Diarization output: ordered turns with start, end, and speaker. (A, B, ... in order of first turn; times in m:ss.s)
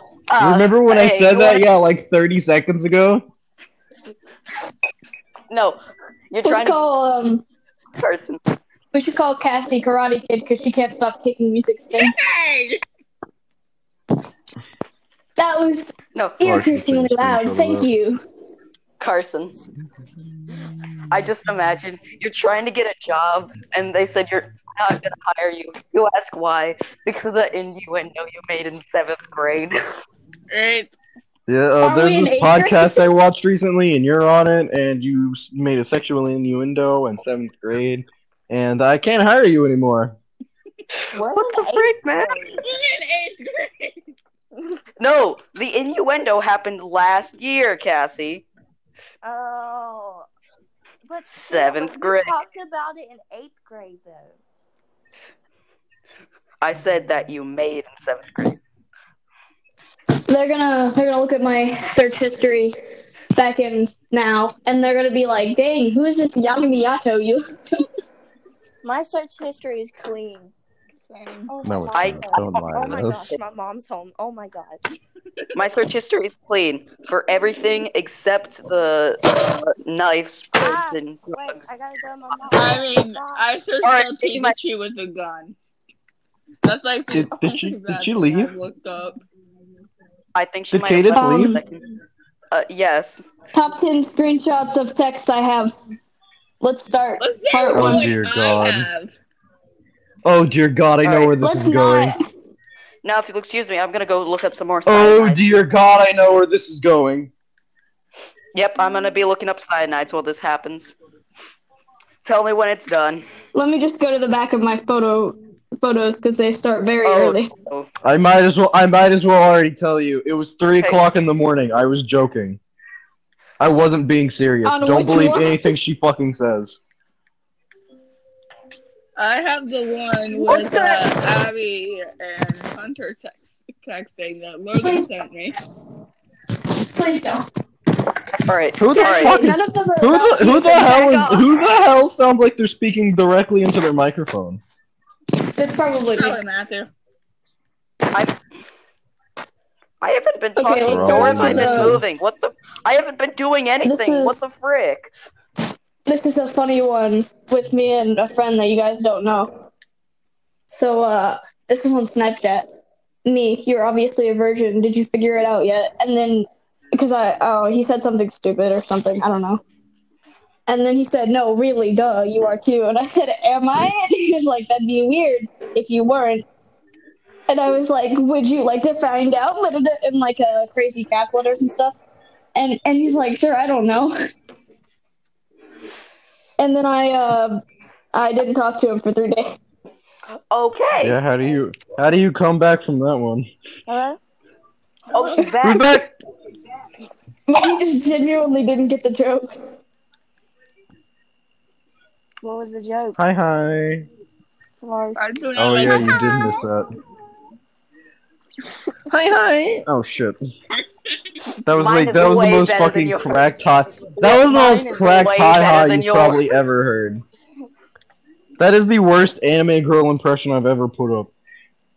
0:00.3-0:01.7 A
0:00.4-0:03.2 B
0:05.5-0:05.8 A
0:06.3-0:06.8 A
0:06.4-0:07.4 C
0:07.9-0:08.4 A
0:08.9-0:12.2 C
0:11.9-0:12.8 D
0:15.4-0:18.2 C
0:16.1-0:16.4 A
0:16.4-0:17.9 B
0:19.0-0:19.6 A
0:21.1-0:29.8 A
0:30.5-0:30.9 D
0:31.5-0:40.1 B
0:31.8-0:33.0 C
0:41.1-0:42.6 E
0:41.2-0:42.6 A
0:42.6-0:44.0 D
0:45.0-0:48.4 A
0:49.2-0:50.3 E
0:51.0-0:54.4 E
0:51.3-0:52.4 A
0:56.6-0:58.6 A
1:00.3-1:02.7 C
1:03.3-1:07.8 C
1:08.8-1:10.5 E
1:11.1-1:11.5 D
1:11.5-1:14.8 E
1:11.6-1:13.3 B
1:11.9-1:13.4 A
1:15.5-1:21.6 A
1:20.6-1:23.4 E
1:22.5-1:25.5 D
1:23.8-1:24.6 A
1:26.6-1:29.2 D
1:27.1-1:28.5 B
1:30.3-1:31.8 A
1:30.7-1:31.6 B
1:31.2-1:31.6 C
1:32.5-1:33.2 A
1:33.5-1:35.7 C
1:36.6-1:38.2 C
1:37.2-1:39.1 D
1:37.7-1:38.9 B
1:40.2-1:42.2 B
1:41.0-1:41.3 A
1:41.4-1:42.2 C
1:43.0-1:45.4 A
1:44.8-1:47.3 B
1:48.5-1:50.9 A
1:52.2-1:53.2 A
1:53.5-1:57.5 C
1:57.0-1:57.9 A
1:58.0-2:02.6 B
2:03.6-2:06.8 B
2:04.6-2:05.7 C
2:09.2-2:15.6 D
2:10.3-2:11.1 C
2:14.8-2:15.0 C
2:16.7-2:17.5 C
2:18.4-2:19.4 A
2:18.8-2:24.6 B
2:18.9-2:21.5 C
2:25.5-2:26.4 C
2:26.1-2:26.9 D
2:30.0-2:35.1 A
2:30.6-2:32.0 C
2:30.8-2:32.0 B
2:33.8-2:34.4 C
2:36.1-2:39.5 C
2:40.7-2:42.7 C
2:43.2-2:49.6 C
2:50.7-2:56.4 C
2:57.5-3:02.0 C
3:02.5-3:04.2 C
3:06.6-3:07.6 C
3:08.1-3:09.5 C
3:10.5-3:11.2 A
3:11.0-3:13.5 B
3:13.9-3:14.2 E
3:15.1-3:16.0 A
3:15.1-3:15.5 D
3:15.6-3:16.1 B
3:17.5-3:19.5 C
3:22.4-3:23.2 E
3:23.2-3:24.1 B
3:24.8-3:25.2 E
3:25.2-3:26.6 D
3:25.6-3:26.9 B
3:29.1-3:29.8 E
3:29.8-3:30.4 B
3:31.6-3:37.2 B
3:31.7-3:33.5 A
3:34.2-3:36.5 A
3:38.6-3:41.3 B